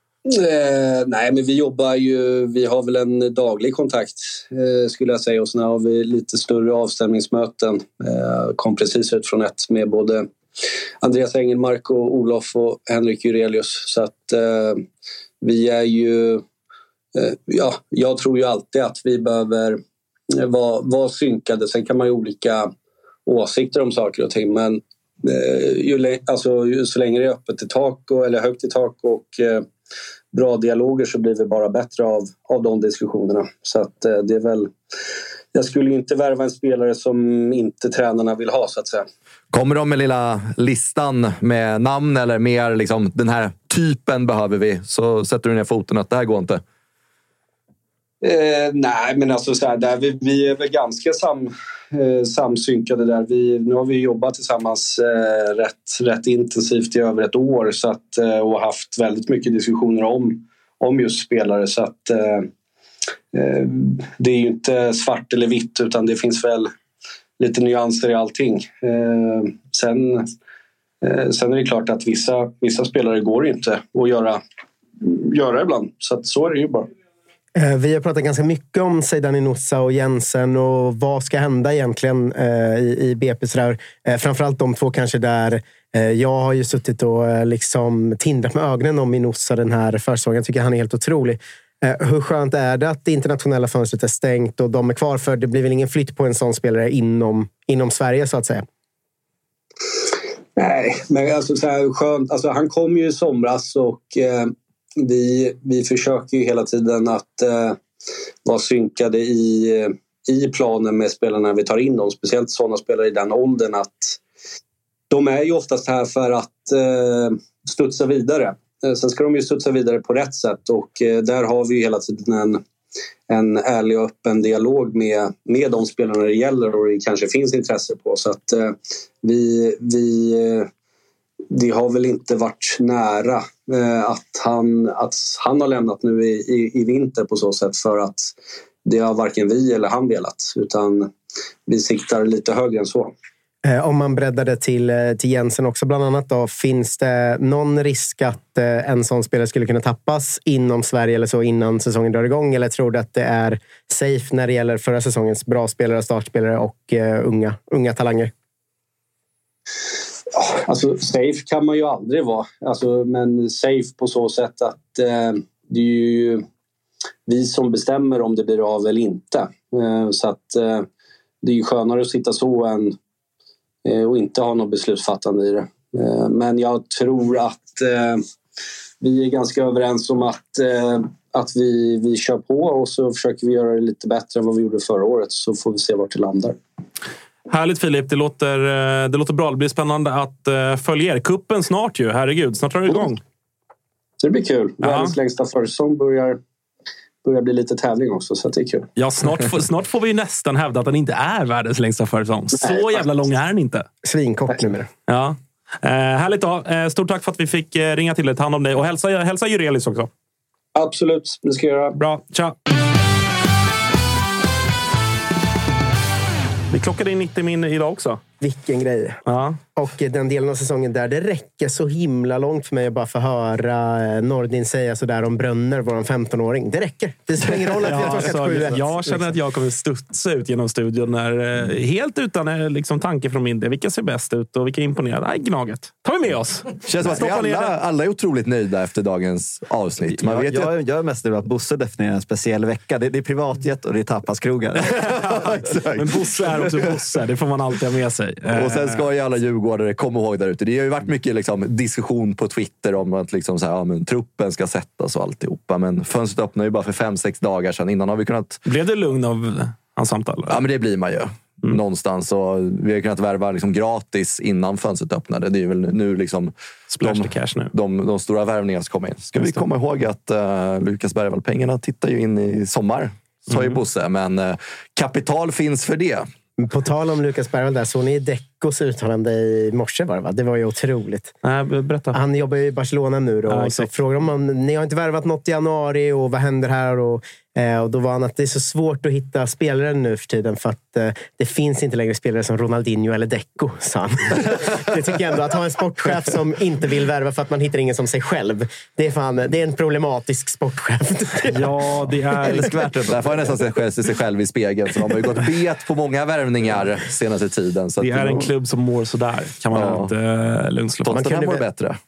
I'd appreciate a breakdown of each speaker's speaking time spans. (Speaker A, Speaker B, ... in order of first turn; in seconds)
Speaker A: 0.3-10.3, 11.0-14.8, 15.4-16.4, 17.1-19.8, 20.4-22.7, 23.3-29.7, 30.3-34.7, 35.5-39.1, 48.2-62.5, 63.3-66.7, 67.4-70.3, 71.0-74.4, 75.0-76.9, 100.6-107.8, 108.5-114.2, 115.1-122.6, 123.3-130.7, 131.5-138.3, 138.8-141.1, 141.7-143.1, 160.3-166.4, 167.3-170.9, 171.4-173.0, 173.8-178.2, 179.0-186.6, 194.2-196.4, 197.2-198.9, 210.8-212.0
Speaker B: 39.5-46.6, 236.9-240.7, 248.5-258.6, 260.5-276.3, 302.7-308.5, 309.7-310.1, 311.1-312.0
Speaker C: 77.6-98.7, 143.7-158.3, 202.6-203.0, 204.0-204.9, 218.4-219.2, 219.8-229.3, 276.6-281.3, 282.1-301.9, 302.4-302.9, 311.1-311.6
Speaker D: 187.5-193.2, 194.8-195.2, 199.0-203.9, 205.1-210.1, 212.0-212.6, 216.7-218.2, 219.3-219.6, 227.8-237.7, 244.9-249.1, 258.7-260.6, 266.9-267.7, 269.4-269.6, 273.5-273.8, 281.4-282.2, 283.5-283.9, 301.5-302.8, 308.0-311.2
Speaker E: 240.1-246.0, 302.8-303.1